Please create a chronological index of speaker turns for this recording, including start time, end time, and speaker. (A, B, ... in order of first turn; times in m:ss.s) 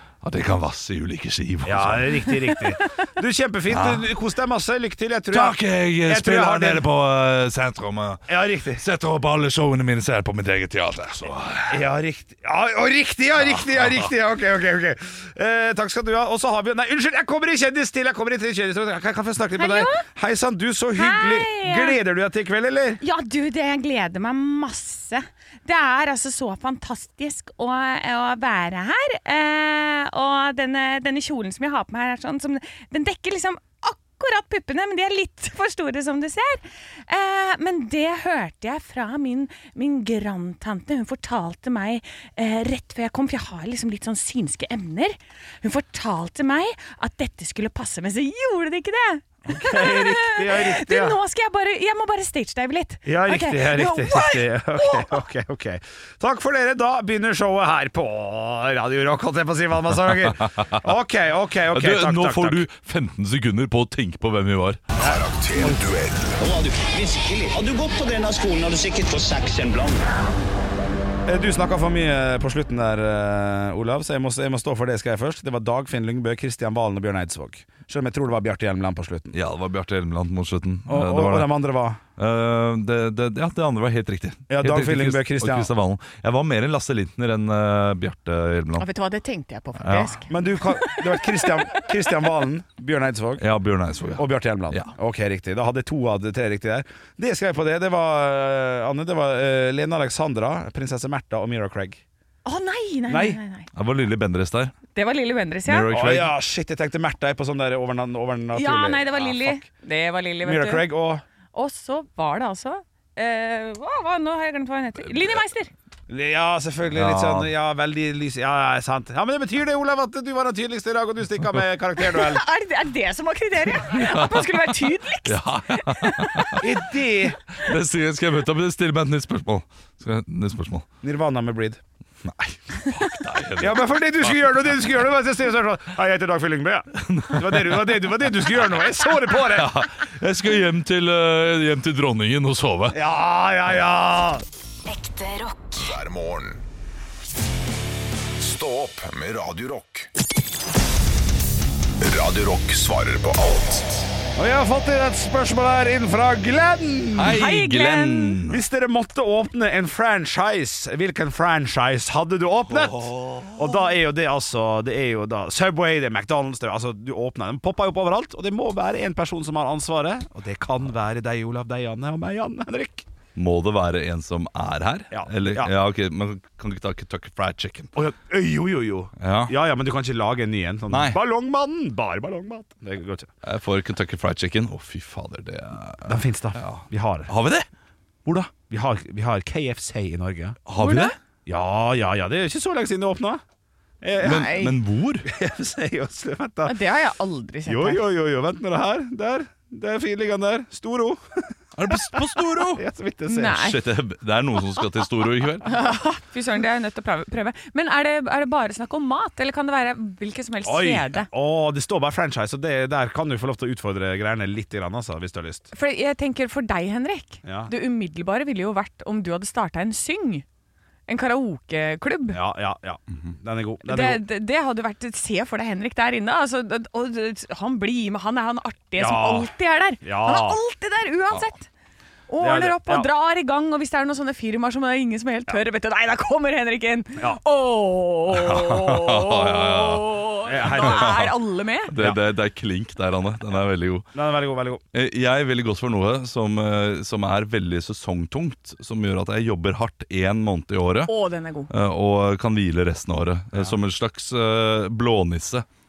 0:00.2-0:02.4 A
0:01.6-0:06.9 B
0:03.7-0:04.1 A
0:05.3-0:11.8 A
0:08.3-0:08.8 B
0:11.7-0:23.0 B
0:13.4-0:14.1 A
0:19.6-0:20.0 C
0:21.0-0:22.0 C
0:23.0-0:55.2 C
0:49.5-0:51.2 B
0:53.0-1:02.7 B
1:01.7-1:04.8 A
1:05.0-1:06.4 D
1:05.0-1:05.8 B
1:06.4-1:10.0 E
1:11.3-1:19.3 B
1:19.3-1:21.6 A
1:20.9-1:22.0 B
1:22.2-1:28.9 A
1:24.5-1:25.7 B
1:28.8-1:31.8 C
1:29.8-1:30.2 A
1:30.3-1:33.4 B
1:33.4-1:34.9 A
1:34.1-1:42.0 B
1:42.5-1:43.7 C
1:43.1-1:43.4 B
1:43.7-1:44.8 A
1:44.9-1:45.9 C
1:45.7-1:46.3 A
1:45.9-1:49.6 B
1:48.5-1:50.9 C
1:50.4-1:51.2 B
1:51.5-1:55.7 C
1:55.1-1:55.4 A
1:56.1-2:02.4 B
1:56.9-1:57.5 A
2:02.0-2:06.6 C
2:04.0-2:06.6 A
2:06.6-2:07.4 B
2:07.6-2:10.9 A
2:11.0-2:11.8 B
2:12.2-2:14.4 A
2:13.6-2:19.8 B
2:17.0-2:18.0 A
2:19.3-2:23.0 A
2:22.9-2:24.4 B
2:25.1-2:26.6 D
2:28.4-2:30.1 D
2:32.0-2:34.1 D
2:34.4-2:37.4 B
2:37.2-2:38.6 A
2:37.3-2:38.4 C
2:38.5-2:53.1 B
2:42.7-2:43.6 A
2:53.4-2:57.9 A
2:55.1-2:55.7 B
2:58.0-3:03.3 B
2:59.2-2:59.6 A
3:00.9-3:01.2 A
3:03.4-3:07.7 A
3:06.1-3:07.3 B
3:08.2-3:08.5 A
3:08.7-3:10.6 B
3:10.7-3:11.1 A
3:10.8-3:11.2 C
3:11.5-3:13.4 B
3:14.0-3:14.6 B
3:14.2-3:14.7 C
3:14.2-3:15.3 A
3:15.2-3:16.8 B
3:16.6-3:18.0 C
3:17.7-3:23.6 B
3:21.8-3:22.8 A
3:23.3-3:23.8 C
3:23.6-3:25.7 A
3:25.6-3:31.3 C
3:30.6-3:35.7 B
3:35.7-3:40.4 C
3:37.4-3:37.7 B
3:41.1-3:42.4 C
3:42.3-3:44.2 B
3:43.8-3:51.7 C
3:49.0-3:50.6 B
3:52.3-4:01.9 C
3:52.4-3:53.1 B
3:58.3-4:01.3 A
4:00.5-4:01.2 B
4:01.9-4:04.1 A
4:04.1-4:04.8 B
4:04.9-4:11.1 A
4:11.1-4:11.7 C
4:11.7-4:15.7 A
4:13.5-4:13.8 B